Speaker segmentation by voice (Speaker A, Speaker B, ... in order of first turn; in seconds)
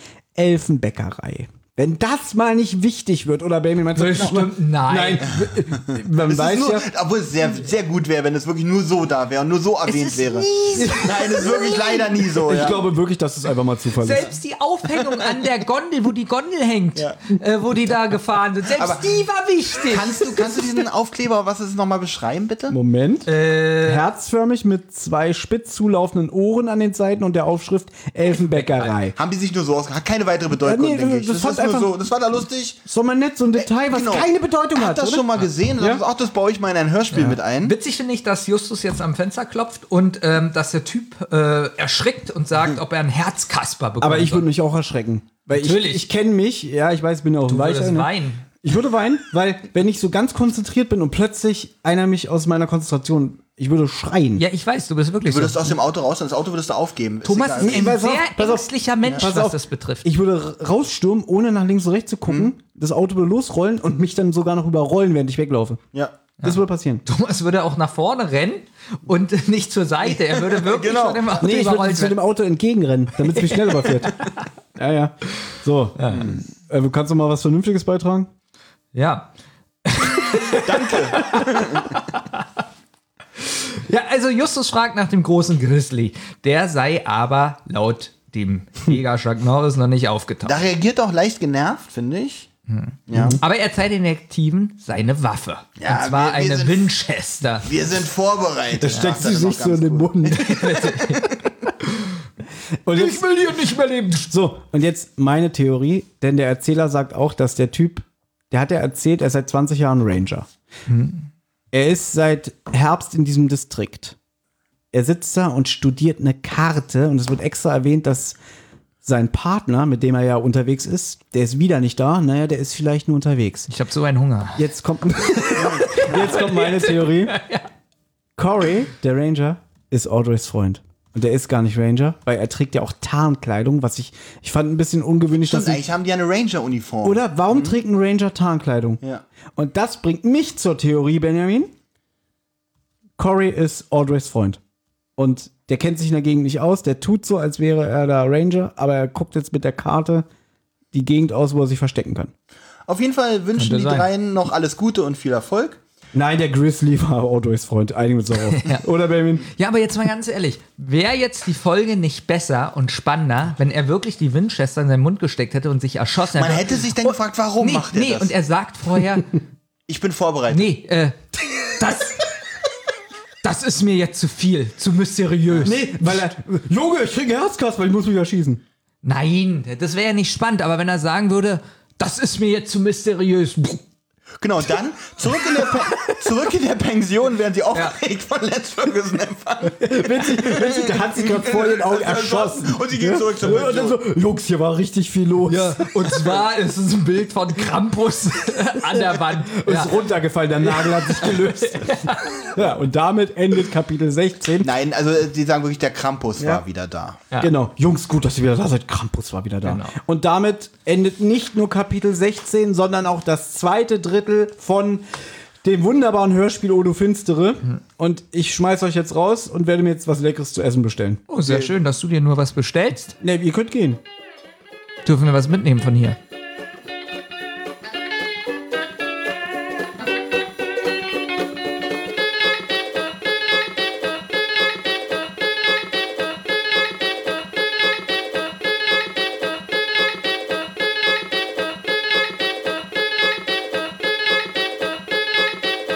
Speaker A: 0.3-6.8, 10.7-11.5, 12.3-14.3, 22.7-29.1, 30.6-31.9, 32.8-36.0, 44.0-54.5, 57.6-65.8, 66.4-67.0, 71.4-74.2, 74.8-78.3, 93.1-93.4, 98.8-100.7, 102.8-103.2, 104.3-110.5, 111.7-114.2, 114.9-118.4, 119.0-123.7, 124.5-127.3, 128.4-135.9, 137.0-139.0, 139.5-141.7, 143.2-144.6, 145.2-150.2, 150.9-152.3, 156.1-159.5, 175.6-178.6, 189.7-196.0, 198.8-204.7, 206.4-206.6, 207.4-215.0, 215.6-221.2, 223.2-224.0
Speaker B: 3.9-5.3, 9.8-12.0, 13.9-20.6, 23.2-24.1, 28.4-28.9, 37.1-44.5, 45.5-46.0, 47.5-48.4, 54.4-55.8, 57.2-60.1, 66.4-72.2, 73.2-74.2, 76.0-76.3, 78.9-79.3, 79.8-82.5, 83.4-90.6, 92.7-97.7, 98.9-99.2, 100.2-101.3, 102.9-104.3, 110.9-111.3, 123.7-124.7, 125.4-127.7, 153.5-154.1, 158.5-158.8, 159.4-169.4, 170.5-171.2, 171.8-172.2, 173.4-176.3, 179.0-183.8, 195.4-202.5, 209.6-209.9, 221.3-223.2, 225.0-226.2
Speaker C: 6.2-12.8, 18.7-19.1, 19.8-22.8, 29.1-32.8, 33.5-37.8, 55.2-57.9, 62.3-62.5, 70.0-71.3, 80.6-81.9, 90.4-92.5, 93.1-93.4, 95.8-96.9, 97.6-101.3, 135.3-137.8, 152.9-155.8, 166.3-168.3, 169.9-170.7, 184.4-194.0, 204.6-207.2, 221.4-221.8